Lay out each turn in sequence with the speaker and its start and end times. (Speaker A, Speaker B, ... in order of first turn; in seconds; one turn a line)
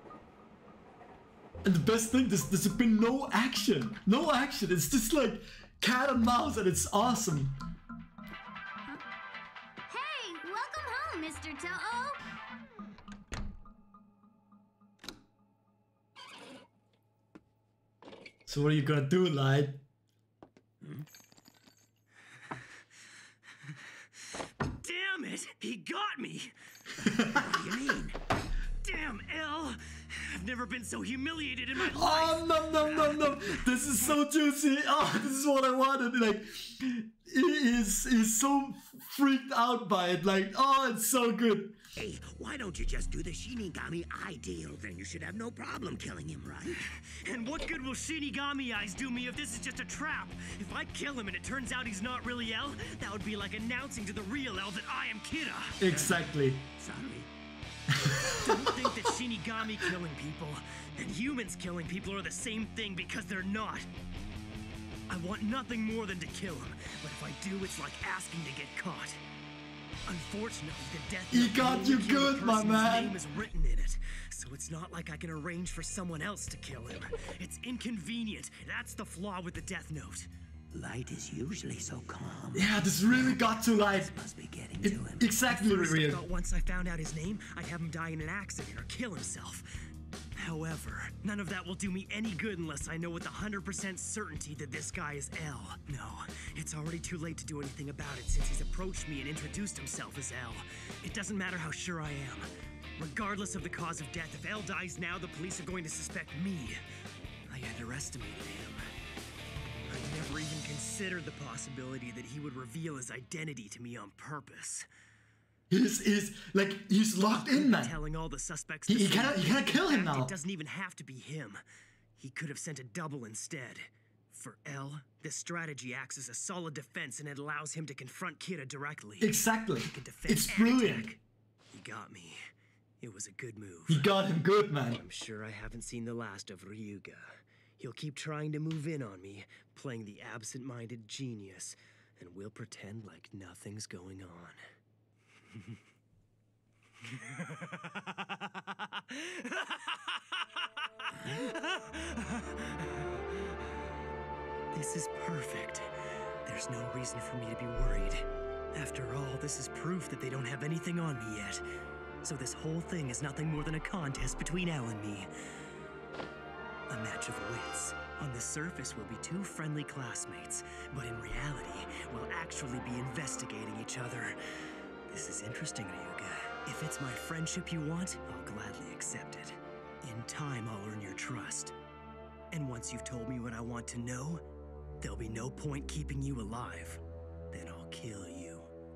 Speaker A: 1.6-7.6
Speaker B: 9.9-12.2
Speaker A: 18.5-19.8
Speaker C: 20.8-21.1
Speaker D: 24.7-26.5
Speaker A: 27.0-27.7
Speaker C: 27.4-28.2
Speaker D: 28.8-33.6
Speaker A: 31.8-41.8
Speaker C: 42.0-46.8
Speaker D: 47.0-56.0
Speaker A: 55.8-56.6
Speaker C: 55.9-56.2
Speaker C: 56.8-57.3
Speaker A: 57.9-58.7
Speaker D: 58.4-63.9
Speaker D: 65.1-69.2
Speaker D: 70.1-80.3
Speaker A: 71.3-73.2
Speaker C: 80.7-85.3
Speaker A: 82.5-84.1
Speaker A: 84.8-86.2
Speaker D: 85.5-89.7
Speaker D: 90.4-106.8
Speaker D: 107.5-108.8
Speaker D: 109.9-114.9
Speaker A: 115.7-118.0
Speaker D: 117.4-121.6
Speaker A: 118.9-120.3
Speaker D: 122.2-131.2
Speaker A: 129.2-131.2
Speaker D: 131.7-132.4
Speaker D: 133.0-134.1
Speaker A: 133.9-135.0
Speaker D: 134.8-144.6
Speaker D: 147.1-147.7
Speaker D: 149.1-149.8
Speaker D: 151.2-152.9
Speaker D: 154.7-155.9
Speaker D: 156.5-161.7
Speaker D: 162.2-165.3
Speaker D: 166.9-174.4
Speaker D: 175.1-181.8
Speaker D: 182.5-184.4
Speaker D: 185.0-188.7